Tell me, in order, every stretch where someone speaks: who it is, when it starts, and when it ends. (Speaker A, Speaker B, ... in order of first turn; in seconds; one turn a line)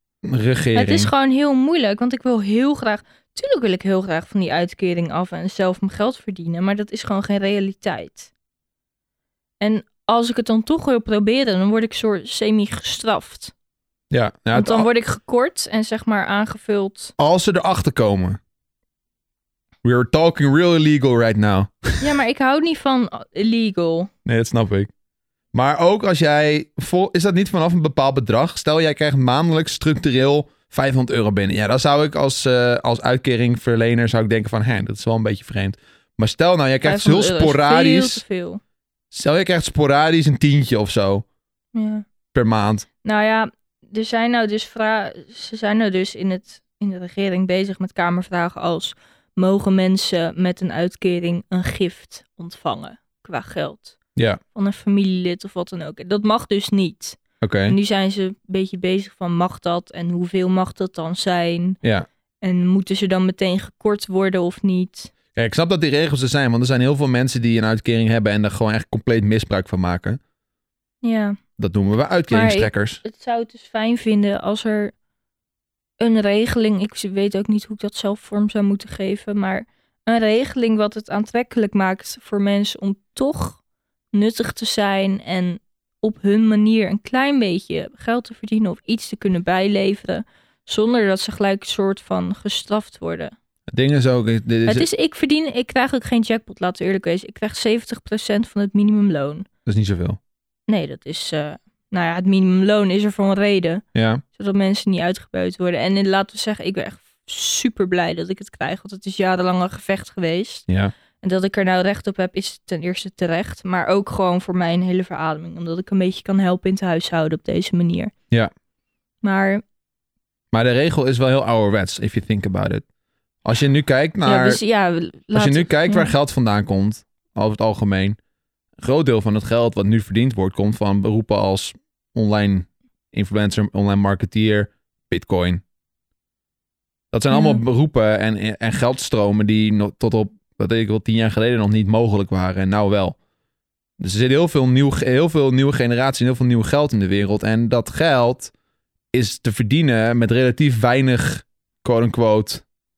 Speaker A: 0.2-1.1
Speaker B: 0.7-8.3
Speaker B: 9.6-13.5
Speaker A: 14.1-14.9
Speaker B: 14.5-17.1
Speaker A: 17.2-18.4
Speaker A: 19.8-22.1
Speaker B: 22.0-24.1
Speaker A: 24.2-24.9
Speaker A: 25.5-38.2
Speaker B: 36.8-38.6
Speaker A: 39.1-41.2
Speaker B: 41.7-42.0
Speaker A: 42.3-42.9
Speaker B: 43.0-54.0
Speaker B: 54.5-61.8
Speaker A: 57.4-57.8
Speaker B: 62.4-65.1
Speaker A: 65.3-70.2
Speaker B: 71.0-71.4
Speaker A: 71.6-73.0
Speaker B: 72.3-74.9
Speaker B: 76.0-83.6
Speaker B: 84.1-93.3
Speaker A: 93.7-94.9
Speaker B: 94.7-99.5
Speaker A: 99.7-100.2
Speaker B: 100.7-103.8
Speaker A: 103.9-104.2
Speaker B: 104.3-110.7
Speaker A: 110.7-110.9
Speaker B: 111.2-118.1
Speaker B: 119.2-119.6
Speaker A: 120.5-122.8
Speaker A: 123.4-124.6
Speaker B: 124.2-126.1
Speaker A: 125.3-128.2
Speaker A: 128.8-135.6
Speaker A: 137.1-143.2
Speaker B: 137.3-137.6
Speaker A: 144.0-148.5
Speaker A: 149.1-152.6